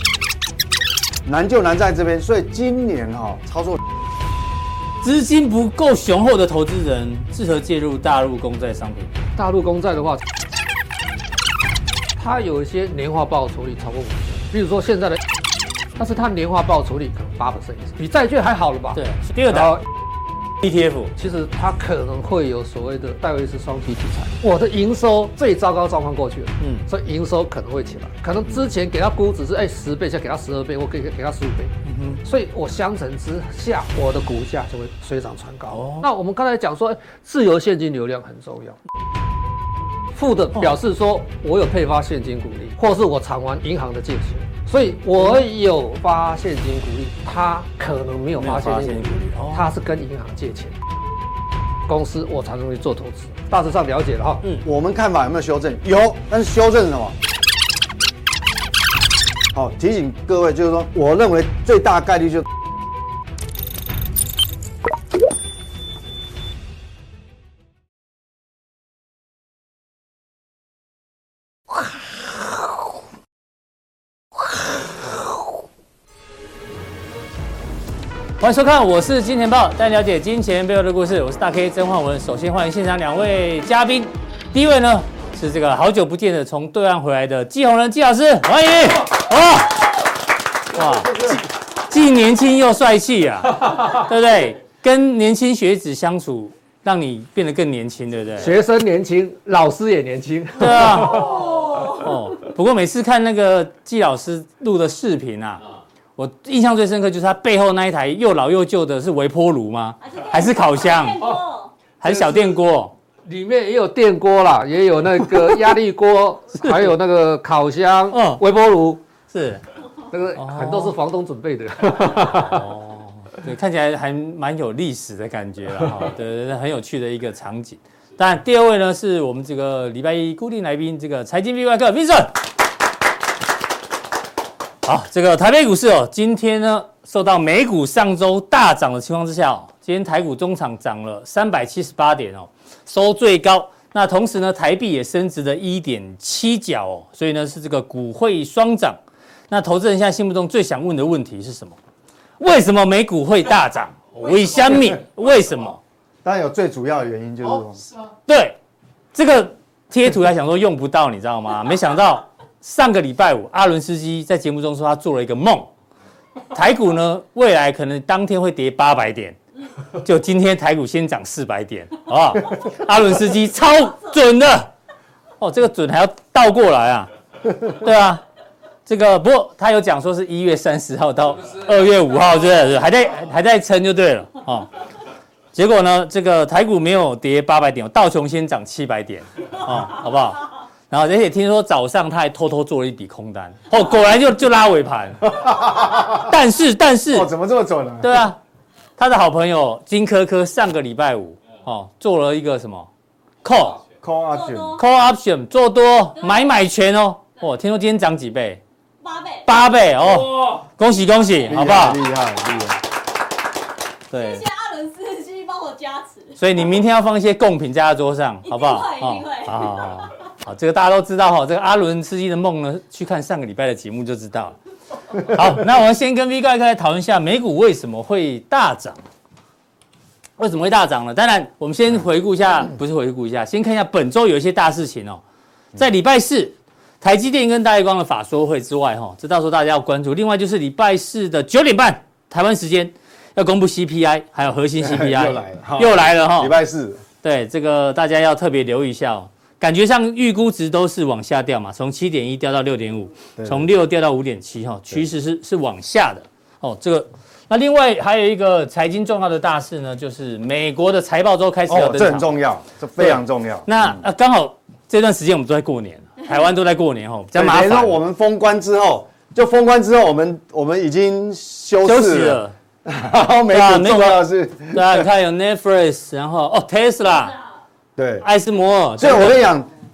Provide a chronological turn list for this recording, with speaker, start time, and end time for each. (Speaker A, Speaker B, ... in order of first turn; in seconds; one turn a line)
Speaker A: 1.2-3.8
Speaker B: 5.0-9.2
Speaker C: 9.3-10.2
Speaker C: 12.2-15.2
Speaker C: 15.9-19.8
Speaker B: 18.9-19.8
Speaker B: 20.6-21.1
Speaker C: 21.2-38.8
Speaker B: 26.6-26.9
Speaker B: 31.8-32.2
Speaker B: 35.7-36.1
Speaker C: 40.1-50.8
Speaker B: 48.4-49.7
Speaker C: 51.9-54.4
Speaker A: 54.6-57.1
Speaker A: 59.5-62.5
Speaker B: 78.4-90.1
Speaker B: 90.7-98.5
Speaker C: 90.8-91.4
Speaker C: 98.4-101.6
Speaker B: 100.6-105.6
Speaker D: 101.0-102.1
Speaker B: 106.2-111.2
Speaker D: 110.0-111.8
Speaker B: 112.0-112.9
Speaker C: 112.0-112.6
Speaker C: 113.2-119.0
Speaker B: 116.6-116.9
Speaker B: 118.1-118.4
Speaker B: 119.3-119.6
Speaker C: 120.1-122.7
Speaker B: 120.4-121.0
Speaker B: 122.2-132.4
Speaker B: 134.8-149.0
Speaker B: 149.5-151.8
Speaker B: 152.4-155.8
Speaker A: 156.2-157.9
Speaker B: 158.3-158.6
Speaker B: 159.1-165.7
Speaker B: 166.5-169.4
Speaker B: 169.9-174.7
Speaker B: 175.4-177.1
Speaker B: 177.6-178.2
Speaker B: 178.8-184.7
Speaker B: 185.5-195.4
Speaker A: 195.4-196.2
Speaker B: 195.9-197.3
Speaker A: 197.1-198.2
Speaker B: 198.0-198.4
Speaker B: 199.0-202.9
Speaker B: 203.4-203.8
Speaker A: 204.0-204.8
Speaker D: 204.3-204.8
Speaker B: 204.8-208.6
Speaker D: 206.2-206.6
Speaker D: 209.0-209.6
Speaker B: 209.4-212.0
Speaker A: 211.5-212.8
Speaker B: 214.1-214.4
Speaker D: 214.1-216.4
Speaker B: 216.4-224.6
Speaker D: 218.5-220.0
Speaker B: 225.2-229.0
Speaker B: 230.4-235.2
Speaker B: 235.8-246.5
Speaker A: 244.8-247.0
Speaker B: 247.2-262.4
Speaker A: 253.4-253.7
Speaker A: 261.7-264.0
Speaker B: 263.0-268.0
Speaker A: 267.3-275.1
Speaker B: 271.8-272.5
Speaker B: 273.5-277.4
Speaker D: 277.1-277.5
Speaker A: 278.0-278.3
Speaker B: 278.2-279.5
Speaker A: 279.0-279.7